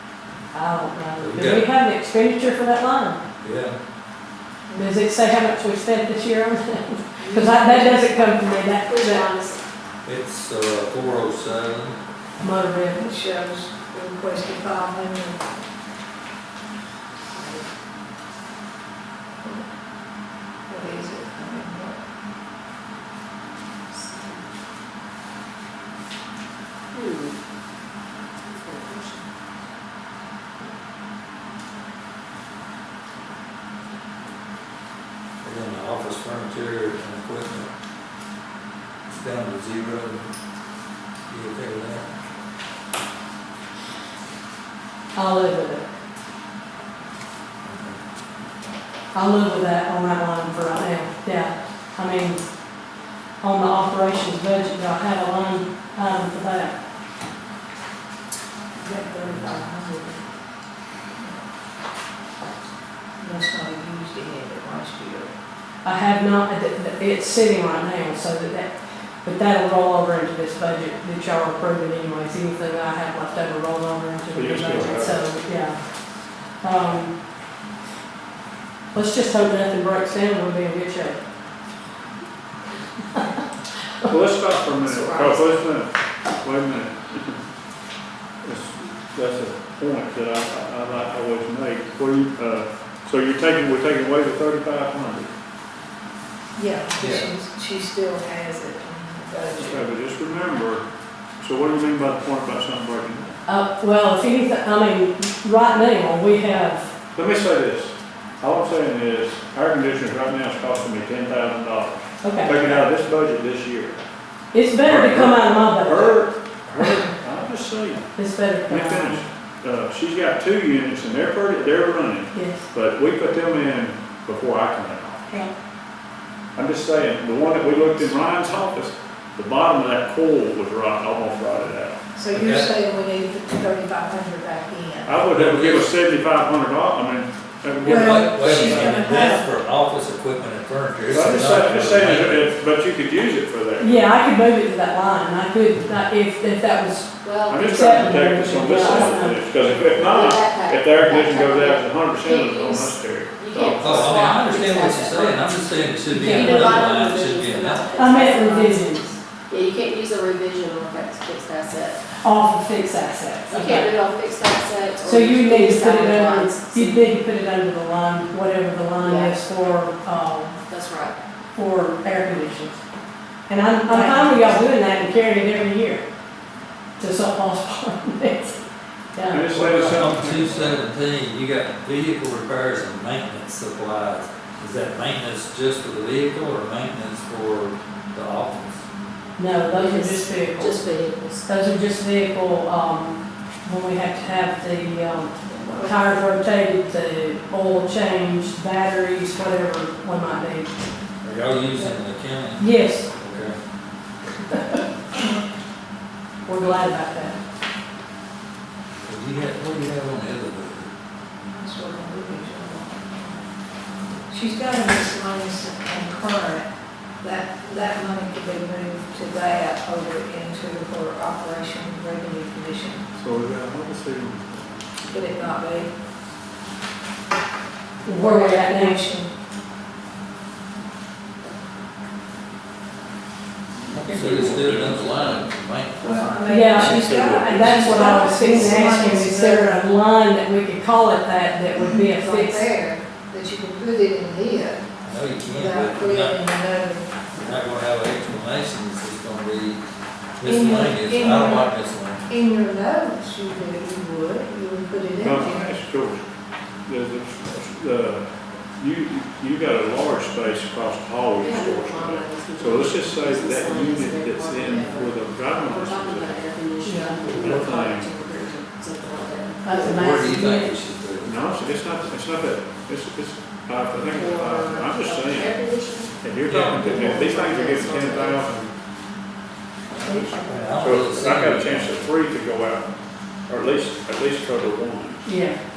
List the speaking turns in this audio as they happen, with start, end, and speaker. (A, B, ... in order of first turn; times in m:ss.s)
0:00.5-0:03.2 A
0:01.2-0:01.7 B
0:03.4-0:03.8 B
0:04.7-0:04.9 C
0:04.7-0:09.3 A
0:07.2-0:08.1 D
0:08.8-0:09.6 D
0:10.0-0:12.0 B
0:12.4-0:13.1 A
0:12.9-0:15.5 C
0:17.3-0:17.6 D
0:20.7-0:22.0 C
0:23.9-0:24.5 D
0:26.9-0:27.4 D
0:28.5-0:29.2 D
0:35.4-0:37.7 B
0:39.1-0:40.3 B
0:41.3-0:42.1 B
0:45.2-0:45.9 A
0:47.6-0:48.0 B
0:49.1-0:52.4 A
0:53.4-0:56.8 A
0:58.8-1:00.2 C
0:58.9-0:59.6 A
1:01.2-1:01.4 C
1:03.2-1:05.3 C
1:05.8-1:08.7 A
1:09.2-1:15.8 A
1:14.3-1:15.2 E
1:16.6-1:17.2 A
1:18.9-1:21.2 A
1:24.1-1:27.4 E
1:24.8-1:25.6 D
1:28.4-1:35.3 E
1:36.6-1:39.9 C
1:37.0-1:37.3 B
1:39.6-1:40.8 E
1:41.4-1:43.4 E
1:43.5-1:46.9 A
1:47.1-1:54.0 E
1:52.2-1:52.9 A
1:54.5-1:56.2 A
1:54.8-1:58.1 E
1:58.2-1:59.2 A
1:58.7-2:05.3 E
2:02.3-2:02.7 A
2:06.6-2:12.0 E
2:12.2-2:15.2 C
2:12.3-2:12.7 B
2:15.1-2:19.0 E
2:15.3-2:15.8 B
2:17.8-2:22.5 B
2:17.8-2:19.4 C
2:21.1-2:24.2 E
2:23.8-2:27.1 A
2:27.2-2:27.9 D
2:27.5-2:34.2 E
2:27.7-2:29.8 A
2:28.7-2:29.2 D
2:29.7-2:35.5 D
2:33.8-2:37.9 B
2:36.1-2:36.8 A
2:36.2-2:42.0 D
2:38.0-2:39.1 A
2:42.2-2:44.0 A
2:43.5-2:47.0 D
2:45.0-2:50.6 A
2:49.0-2:49.4 D
2:50.7-2:51.2 D
2:51.6-2:52.8 A
2:53.5-2:56.0 A
2:57.0-2:58.6 A
2:59.2-2:59.6 A
2:59.3-3:00.8 E
2:59.5-3:08.8 B
3:09.4-3:10.9 A
3:09.7-3:11.5 D
3:11.4-3:20.7 A
3:15.6-3:16.0 C
3:21.2-3:23.6 B
3:22.6-3:23.1 A
3:26.5-3:27.4 A
3:29.0-3:30.9 B
3:31.6-3:33.4 C
3:34.3-3:36.7 C
3:37.2-3:43.1 C
3:43.2-3:45.5 E
3:45.1-3:45.9 C
3:48.0-3:49.1 A
3:48.1-3:49.3 C
3:53.9-3:56.4 B
3:54.0-3:55.4 E
3:56.0-3:59.8 C
3:56.5-4:02.8 A
3:56.8-3:58.8 E
4:01.8-4:04.9 C
4:05.0-4:06.5 B
4:05.5-4:07.1 C
4:07.3-4:09.8 B
4:10.4-4:12.2 B
4:10.4-4:11.7 C
4:12.3-4:15.7 C
4:15.2-4:16.2 E
4:16.9-4:18.3 E
4:18.8-4:26.4 E
4:21.3-4:30.1 D
4:26.8-4:27.3 A
4:27.3-4:28.1 E
4:29.6-4:30.8 A
4:29.7-4:31.3 B
4:31.2-4:35.6 E
4:34.0-4:36.2 D
4:36.2-4:38.7 E
4:36.5-4:36.9 B
4:36.8-4:38.4 D
4:40.0-4:40.5 C
4:40.4-4:42.0 B
4:40.8-4:42.9 E
4:43.5-4:45.3 E
4:45.2-4:45.6 A